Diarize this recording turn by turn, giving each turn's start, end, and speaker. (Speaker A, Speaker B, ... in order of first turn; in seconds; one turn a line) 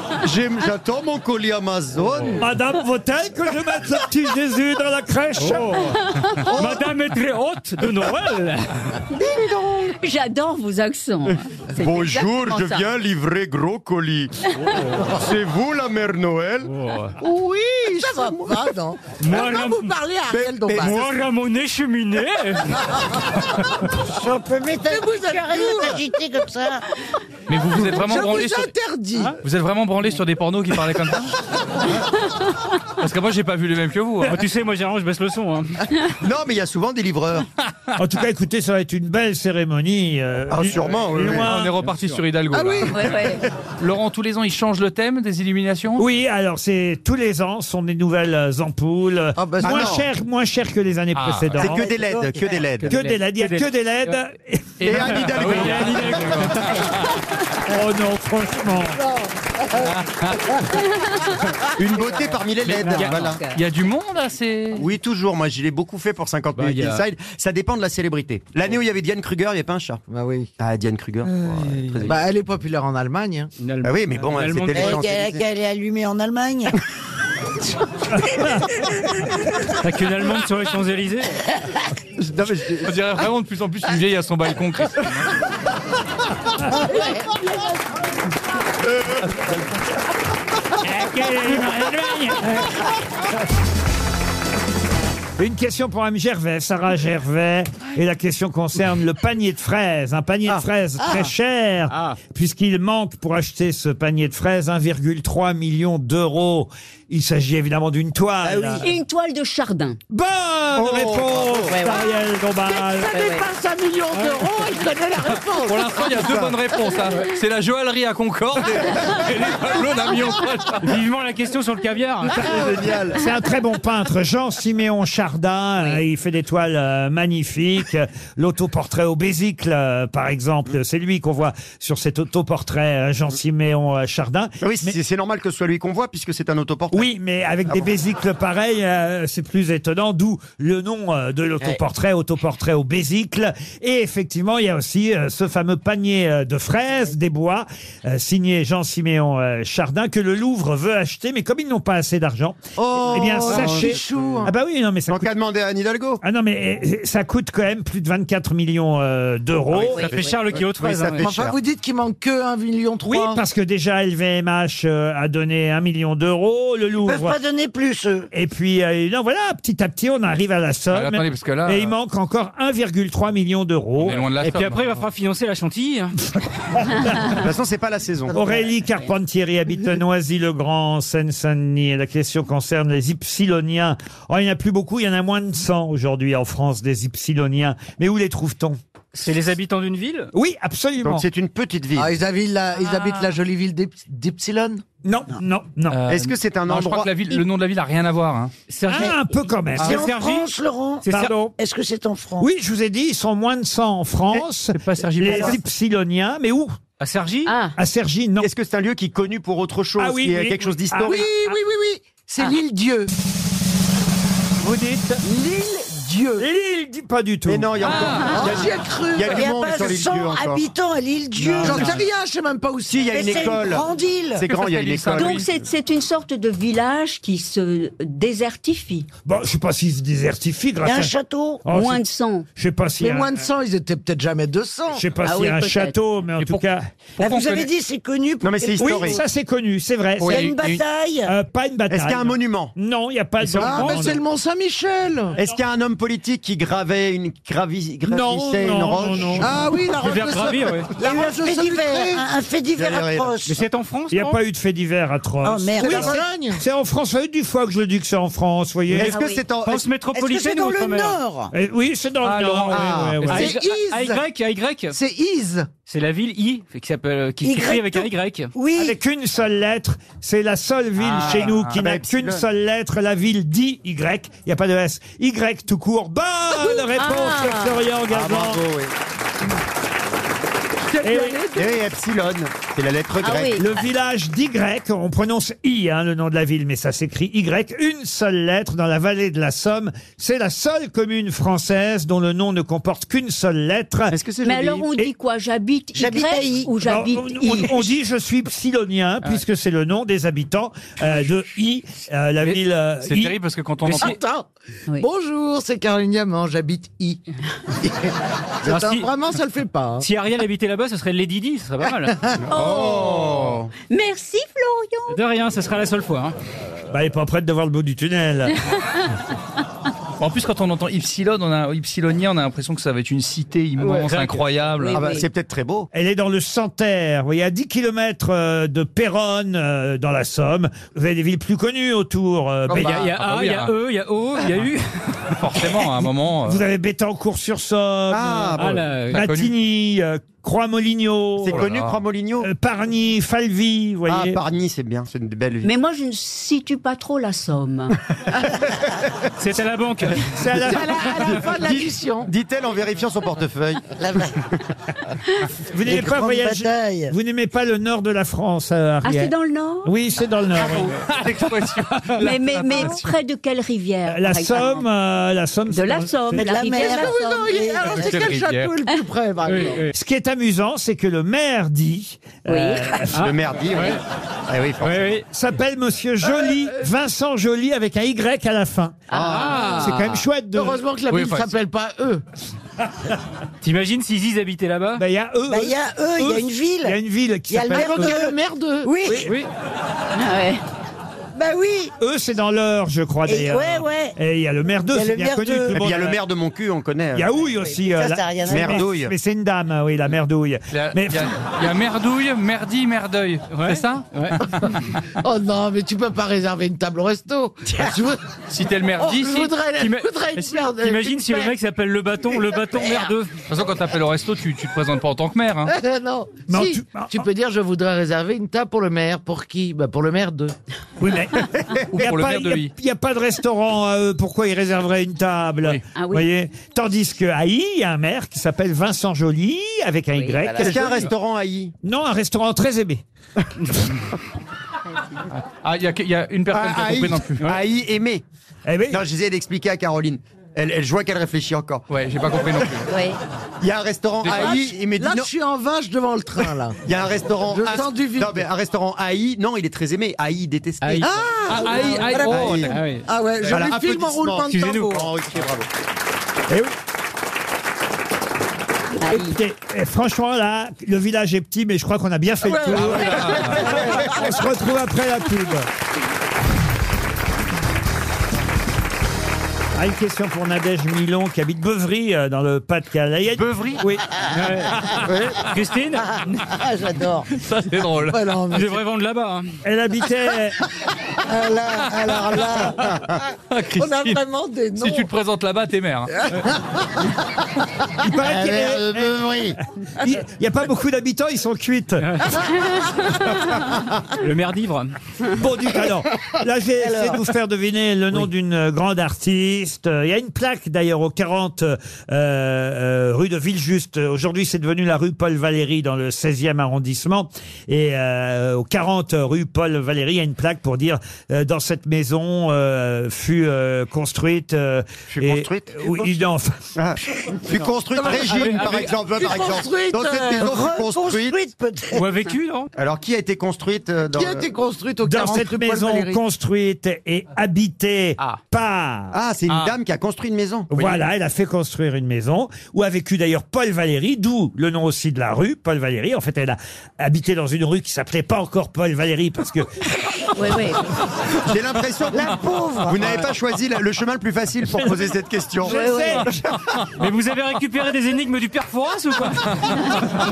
Speaker A: 0.2-2.4
Speaker B: 2.4-6.0
Speaker C: 5.4-8.9
Speaker A: 6.5-6.8
Speaker D: 9.2-12.9
Speaker A: 9.3-9.7
Speaker A: 11.8-16.7
Speaker C: 14.7-15.0
Speaker C: 16.6-17.2
Speaker E: 17.2-21.1
Speaker A: 17.9-18.6
Speaker C: 19.2-19.9
Speaker A: 20.3-21.0
Speaker C: 20.8-22.8
Speaker F: 24.0-26.9
Speaker E: 24.9-26.0
Speaker G: 27.5-28.7
Speaker E: 27.8-29.4
Speaker G: 29.4-31.3
Speaker G: 33.0-34.4
Speaker C: 34.2-35.9
Speaker A: 36.2-37.5
Speaker B: 38.0-41.7
Speaker A: 40.5-41.5
Speaker G: 41.2-46.0
Speaker C: 41.7-42.2
Speaker E: 42.5-43.4
Speaker D: 42.9-43.4
Speaker B: 46.0-51.9
Speaker E: 49.4-50.0
Speaker A: 49.6-50.0
Speaker G: 51.1-51.7
Speaker A: 51.5-52.9
Speaker E: 51.8-52.3
Speaker C: 52.8-54.2
Speaker B: 52.9-54.9
Speaker G: 54.8-57.1
Speaker A: 54.8-56.5
Speaker C: 55.0-56.9
Speaker B: 57.7-59.0
Speaker E: 58.8-60.0
Speaker G: 59.9-60.6
Speaker A: 61.8-63.4
Speaker C: 62.7-63.3
Speaker D: 63.1-63.5
Speaker G: 63.5-64.8
Speaker A: 64.8-70.0
Speaker C: 66.5-67.0
Speaker E: 70.1-70.5
Speaker A: 70.6-72.2
Speaker E: 72.0-73.5
Speaker C: 73.6-75.0
Speaker A: 73.8-75.5
Speaker F: 74.7-76.8
Speaker B: 78.1-78.8
Speaker C: 79.8-81.4
Speaker A: 82.2-82.9
Speaker G: 82.8-85.3
Speaker B: 90.8-92.7
Speaker B: 95.4-108.9
Speaker C: 101.9-102.2
Speaker F: 108.4-108.9
Speaker D: 108.8-110.0
Speaker B: 110.1-113.2
Speaker A: 110.8-111.8
Speaker E: 112.6-116.5
Speaker D: 113.1-113.4
Speaker C: 114.1-114.5
Speaker G: 115.7-121.0
Speaker A: 116.3-116.5
Speaker C: 120.8-122.5
Speaker A: 122.3-123.2
Speaker B: 123.1-135.0
Speaker A: 134.6-137.1
Speaker B: 136.9-155.3
Speaker E: 152.8-154.5
Speaker A: 153.5-154.0
Speaker A: 155.1-156.2
Speaker B: 156.2-160.1
Speaker A: 159.9-161.6
Speaker C: 159.9-161.3
Speaker D: 160.0-160.3
Speaker E: 161.2-163.4
Speaker B: 163.1-167.4
Speaker F: 167.0-168.3
Speaker B: 168.3-174.2
Speaker G: 170.9-171.9
Speaker G: 174.0-175.0
Speaker C: 174.4-176.2
Speaker A: 177.2-178.4
Speaker B: 178.3-188.8
Speaker C: 189.1-190.3
Speaker B: 190.3-191.2
Speaker A: 191.0-192.1
Speaker E: 191.9-194.8
Speaker B: 195.0-196.0
Speaker G: 195.9-198.5
Speaker A: 196.1-197.1
Speaker C: 198.7-200.5
Speaker B: 198.9-200.0
Speaker F: 199.8-202.5
Speaker C: 201.1-201.3
Speaker B: 201.1-201.5
Speaker B: 202.4-206.8
Speaker G: 204.7-205.6
Speaker C: 207.0-207.5
Speaker D: 207.5-207.8
Speaker B: 207.8-208.5
Speaker A: 208.4-211.3
Speaker B: 210.0-211.3
Speaker E: 211.0-213.1
Speaker E: 215.2-216.5
Speaker B: 216.4-217.7
Speaker A: 217.5-220.7
Speaker G: 217.9-218.4
Speaker E: 218.2-219.4
Speaker F: 219.2-222.0
Speaker E: 221.6-223.7
Speaker A: 222.9-225.4
Speaker F: 223.1-224.4
Speaker G: 224.4-225.5
Speaker D: 225.2-229.1
Speaker B: 229.2-231.1
Speaker F: 230.8-231.6
Speaker B: 231.7-232.0
Speaker D: 231.7-232.5
Speaker B: 232.6-233.4
Speaker E: 233.0-235.0
Speaker B: 234.9-236.8
Speaker D: 235.2-235.9
Speaker G: 236.4-236.6
Speaker G: 237.2-237.7
Speaker F: 237.2-239.2
Speaker A: 238.4-239.2
Speaker B: 238.8-240.5
Speaker G: 240.2-240.8
Speaker F: 240.2-241.3
Speaker B: 241.3-244.2
Speaker A: 241.9-242.7
Speaker C: 243.4-244.1
Speaker E: 243.6-245.4
Speaker A: 245.4-249.6
Speaker B: 248.1-249.6
Speaker E: 249.4-252.3
Speaker C: 250.0-250.9
Speaker F: 251.0-253.6
Speaker A: 252.8-253.4
Speaker C: 253.4-254.4
Speaker B: 254.1-259.2
Speaker F: 255.4-256.3
Speaker E: 255.8-256.6
Speaker A: 258.9-259.9
Speaker D: 259.1-259.4
Speaker C: 259.6-261.2
Speaker F: 260.1-261.5
Speaker B: 261.5-263.5
Speaker G: 262.2-263.3
Speaker A: 262.7-263.3
Speaker C: 263.3-265.0
Speaker E: 263.3-264.2
Speaker E: 264.9-265.7
Speaker C: 265.9-268.5
Speaker F: 267.4-269.0
Speaker B: 268.7-278.6
Speaker G: 271.0-271.8
Speaker A: 271.2-272.4
Speaker D: 276.6-277.8
Speaker A: 278.1-278.9
Speaker E: 280.9-281.7
Speaker B: 281.0-281.4
Speaker A: 281.5-283.6
Speaker D: 283.2-283.7
Speaker B: 283.6-294.2
Speaker A: 294.1-294.9
Speaker D: 294.4-297.9
Speaker F: 295.9-296.7
Speaker B: 296.8-303.4
Speaker G: 302.4-304.2
Speaker C: 303.9-304.1
Speaker E: 303.9-307.2
Speaker E: 307.8-310.1
Speaker C: 308.6-309.1
Speaker C: 310.0-312.2
Speaker E: 312.1-312.4
Speaker A: 312.4-313.7
Speaker D: 312.5-315.2
Speaker C: 315.1-316.4
Speaker B: 316.9-318.6
Speaker G: 320.2-325.0
Speaker C: 323.8-324.4
Speaker D: 324.8-325.3
Speaker A: 324.9-325.9
Speaker B: 325.9-333.0
Speaker A: 332.7-333.0
Speaker G: 332.7-333.7
Speaker C: 332.8-335.3
Speaker G: 335.4-336.6
Speaker B: 336.4-341.7
Speaker A: 338.1-338.9
Speaker C: 338.6-339.2
Speaker G: 339.1-339.5
Speaker A: 341.4-342.5
Speaker G: 341.5-342.0
Speaker B: 342.4-344.4
Speaker A: 344.1-345.7
Speaker D: 345.6-348.0
Speaker C: 349.4-350.6
Speaker B: 350.2-351.4
Speaker E: 350.6-352.3
Speaker A: 351.2-353.8
Speaker F: 354.0-354.4
Speaker B: 355.7-361.0
Speaker F: 355.8-357.1
Speaker D: 359.0-359.9
Speaker G: 361.1-363.1
Speaker D: 362.2-364.9
Speaker B: 364.1-366.5
Speaker D: 365.7-367.8
Speaker F: 366.3-368.2
Speaker E: 366.8-369.9
Speaker G: 367.9-368.7
Speaker C: 369.5-369.9
Speaker B: 369.9-373.3
Speaker D: 372.5-373.0
Speaker C: 373.1-374.0
Speaker A: 373.1-375.1
Speaker C: 374.8-375.3
Speaker B: 375.3-379.0
Speaker A: 379.1-379.7
Speaker C: 379.1-380.2
Speaker E: 379.5-379.9
Speaker B: 379.7-380.8
Speaker E: 380.5-382.2
Speaker G: 381.1-381.5
Speaker C: 383.6-385.0
Speaker B: 385.0-388.2
Speaker F: 385.5-387.0
Speaker F: 387.5-389.3
Speaker E: 387.7-389.0
Speaker D: 390.1-390.6
Speaker F: 391.4-391.9
Speaker B: 392.0-396.2
Speaker F: 393.3-394.2
Speaker F: 394.9-395.8
Speaker A: 395.7-397.3
Speaker B: 397.1-401.3
Speaker F: 397.8-398.9
Speaker A: 398.5-399.1
Speaker G: 400.7-404.1
Speaker C: 403.5-404.4
Speaker E: 404.6-408.2
Speaker G: 408.5-409.5
Speaker E: 409.0-411.6
Speaker C: 409.8-413.3
Speaker E: 412.3-412.6
Speaker G: 413.5-415.7
Speaker E: 415.7-420.5
Speaker B: 416.5-417.3
Speaker B: 421.0-431.0
Speaker G: 421.9-422.7
Speaker D: 425.9-426.3
Speaker D: 430.1-430.5
Speaker A: 430.6-431.7
Speaker B: 431.8-433.0
Speaker G: 435.3-437.4
Speaker A: 436.5-438.2
Speaker B: 438.7-439.0
Speaker A: 438.9-441.8
Speaker G: 441.9-442.9
Speaker D: 442.9-443.2
Speaker A: 443.6-445.3
Speaker G: 444.2-444.6
Speaker E: 444.2-446.8
Speaker A: 446.9-451.1
Speaker E: 447.5-448.5
Speaker C: 450.8-451.1
Speaker E: 451.0-455.1
Speaker G: 451.5-452.8
Speaker C: 451.7-452.0
Speaker D: 451.7-452.1
Speaker A: 452.2-452.8
Speaker C: 452.7-453.1
Speaker G: 453.4-453.7
Speaker A: 453.5-455.7
Speaker C: 454.5-455.1
Speaker B: 456.5-456.7
Speaker D: 459.0-459.4
Speaker B: 459.1-465.7
Speaker G: 462.7-463.8
Speaker A: 462.8-464.1
Speaker B: 469.8-474.0
Speaker A: 473.4-473.8
Speaker C: 474.3-476.4
Speaker E: 476.6-477.2
Speaker G: 477.3-478.2
Speaker E: 478.0-478.9
Speaker C: 478.5-479.5
Speaker B: 479.6-480.6
Speaker E: 481.3-483.0
Speaker G: 483.5-484.2
Speaker E: 483.7-485.1
Speaker G: 484.8-486.2
Speaker E: 486.2-486.6
Speaker B: 488.0-489.2
Speaker A: 488.4-489.5
Speaker B: 490.0-492.2
Speaker C: 492.0-492.4
Speaker C: 494.2-494.9
Speaker B: 495.3-516.7
Speaker A: 515.1-516.0
Speaker A: 516.8-521.4
Speaker E: 518.0-520.5
Speaker C: 518.0-519.0
Speaker F: 520.4-522.0
Speaker C: 521.9-522.7
Speaker A: 522.8-524.5
Speaker E: 524.1-526.2
Speaker B: 525.0-529.2
Speaker A: 529.1-531.0
Speaker B: 530.7-539.7
Speaker D: 540.3-540.8
Speaker A: 541.5-545.8
Speaker F: 542.1-543.3
Speaker B: 545.6-546.5
Speaker D: 545.7-546.2
Speaker C: 547.0-550.1